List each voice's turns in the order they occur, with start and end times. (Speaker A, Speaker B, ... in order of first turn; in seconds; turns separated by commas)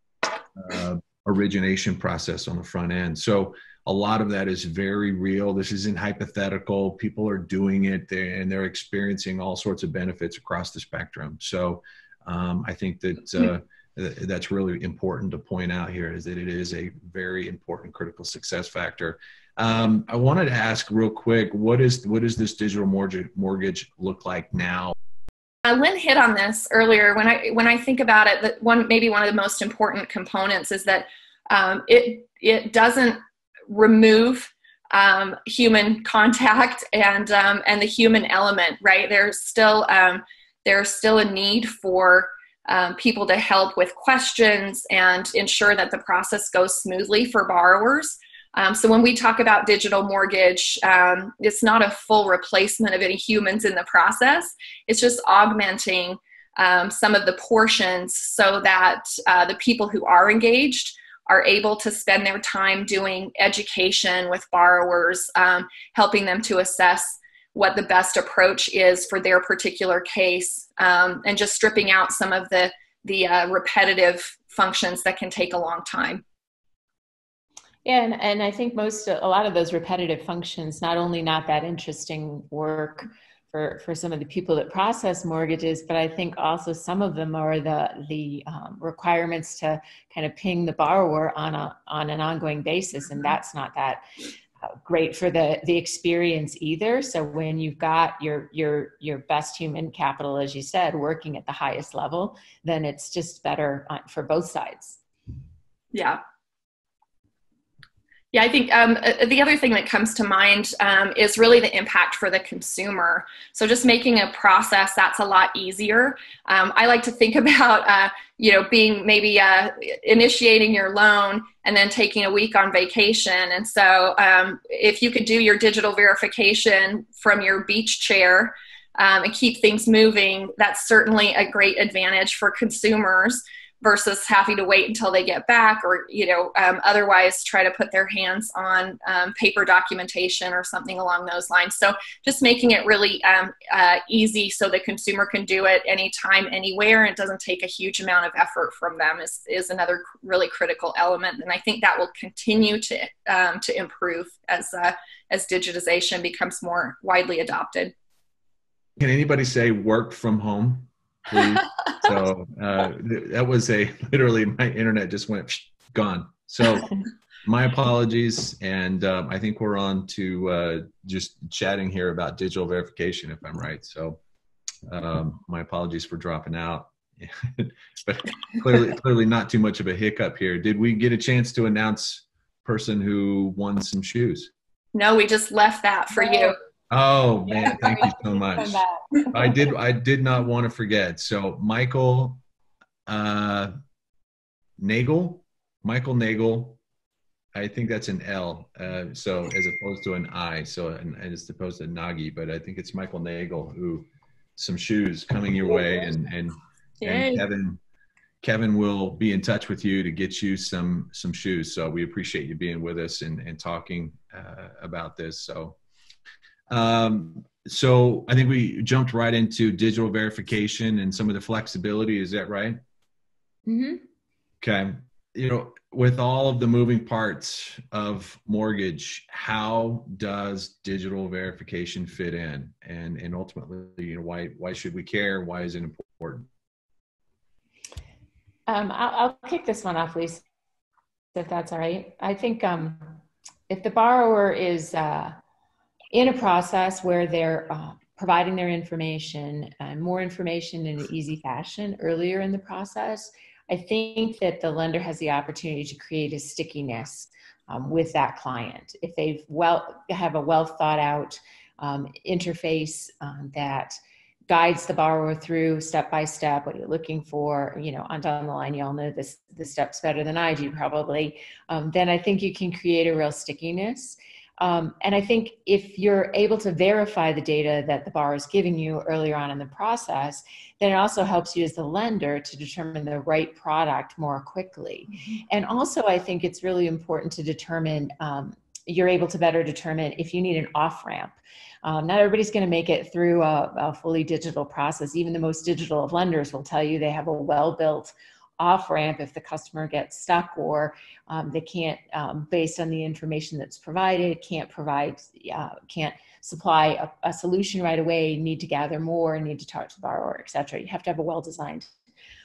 Speaker A: 0.6-24.9, Speaker B: 25.6-76.2, Speaker C: 77.8-94.0, Speaker C: 94.8-105.0, Speaker B: 105.9-106.2, Speaker B: 108.3-157.9, Speaker A: 159.0-174.2, Speaker A: 174.9-184.5, Speaker B: 184.9-186.6, Speaker C: 186.2-186.6, Speaker A: 186.9-192.4, Speaker C: 187.5-189.5, Speaker A: 193.1-193.7, Speaker A: 194.8-196.8, Speaker A: 197.5-207.8, Speaker B: 207.0-207.4, Speaker A: 208.4-215.8, Speaker A: 216.7-222.8, Speaker C: 223.7-224.0, Speaker A: 224.6-236.5, Speaker C: 238.7-240.4, Speaker C: 241.3-245.4, Speaker C: 246.1-264.0, Speaker C: 264.5-311.9